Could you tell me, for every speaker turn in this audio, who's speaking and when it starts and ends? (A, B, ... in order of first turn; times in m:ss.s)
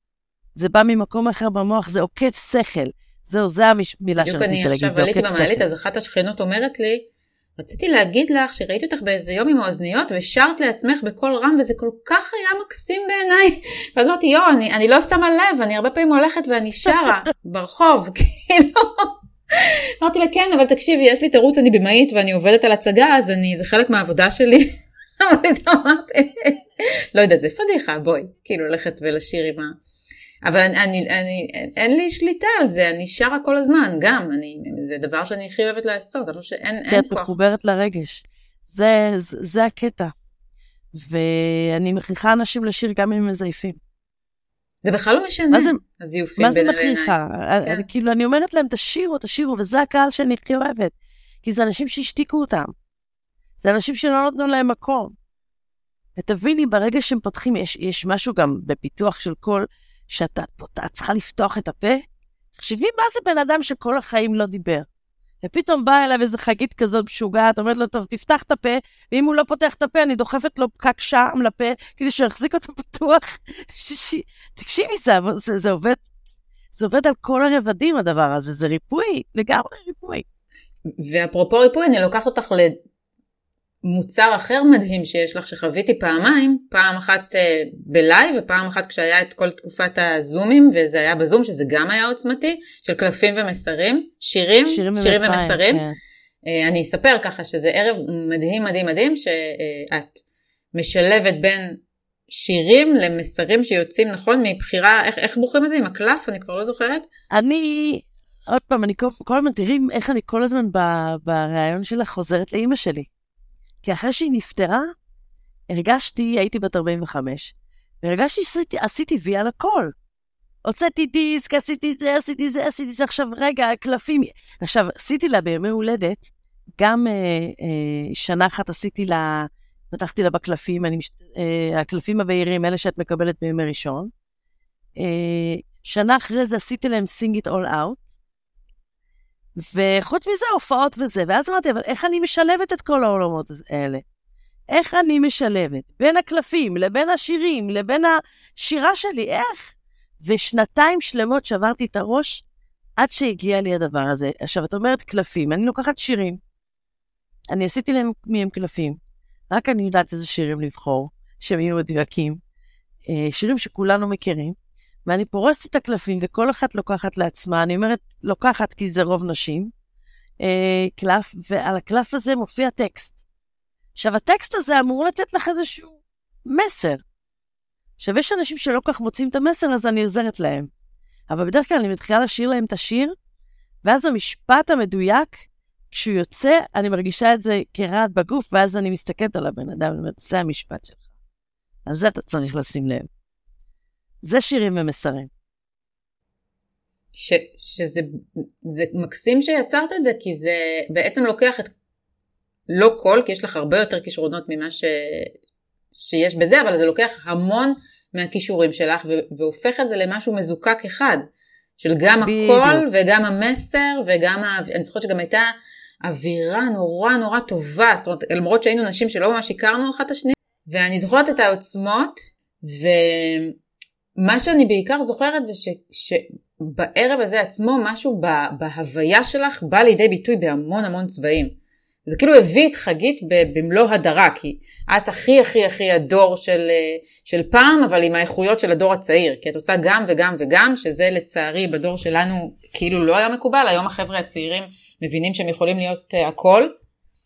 0:00.6-0:05.7 A
0:04.2-0:07.1 B
0:07.6-0:29.8 B
0:30.4-0:37.3 B
0:36.9-0:40.1 A
0:40.9-0:43.8 A
0:44.8-0:47.9 B
0:45.5-0:45.8 A
0:46.4-0:52.7 A
0:53.6-0:55.1 A
0:56.2-1:02.0 A
1:02.5-1:04.8 A
1:05.4-1:16.0 A
1:16.7-1:20.2 A
1:21.0-1:22.8 B
1:23.8-1:35.8 B
1:34.6-1:36.0 A
1:36.4-1:40.2 B
1:40.7-1:41.8 B
1:42.3-1:47.1 B
1:47.3-1:53.1 A
1:53.8-1:54.9 A
1:55.7-1:59.9 A
2:00.6-2:14.1 A
2:15.0-2:18.0 A
2:19.6-2:24.0 A
2:24.7-2:32.4 A
2:33.0-2:36.4 A
2:37.5-2:39.0 A
2:39.5-2:42.4 A
2:43.1-2:49.7 A
2:50.4-2:53.2 A
2:54.0-2:57.0 A
2:58.0-3:00.7 A
3:01.3-3:03.1 A
3:03.8-3:11.0 A
3:11.9-3:13.1 A
3:14.2-3:15.3 A
3:17.1-3:21.7 B
3:22.7-3:25.3 B
3:25.9-3:31.3 B
3:31.8-3:43.6 B
3:32.2-3:32.8 A
3:44.2-4:06.7 B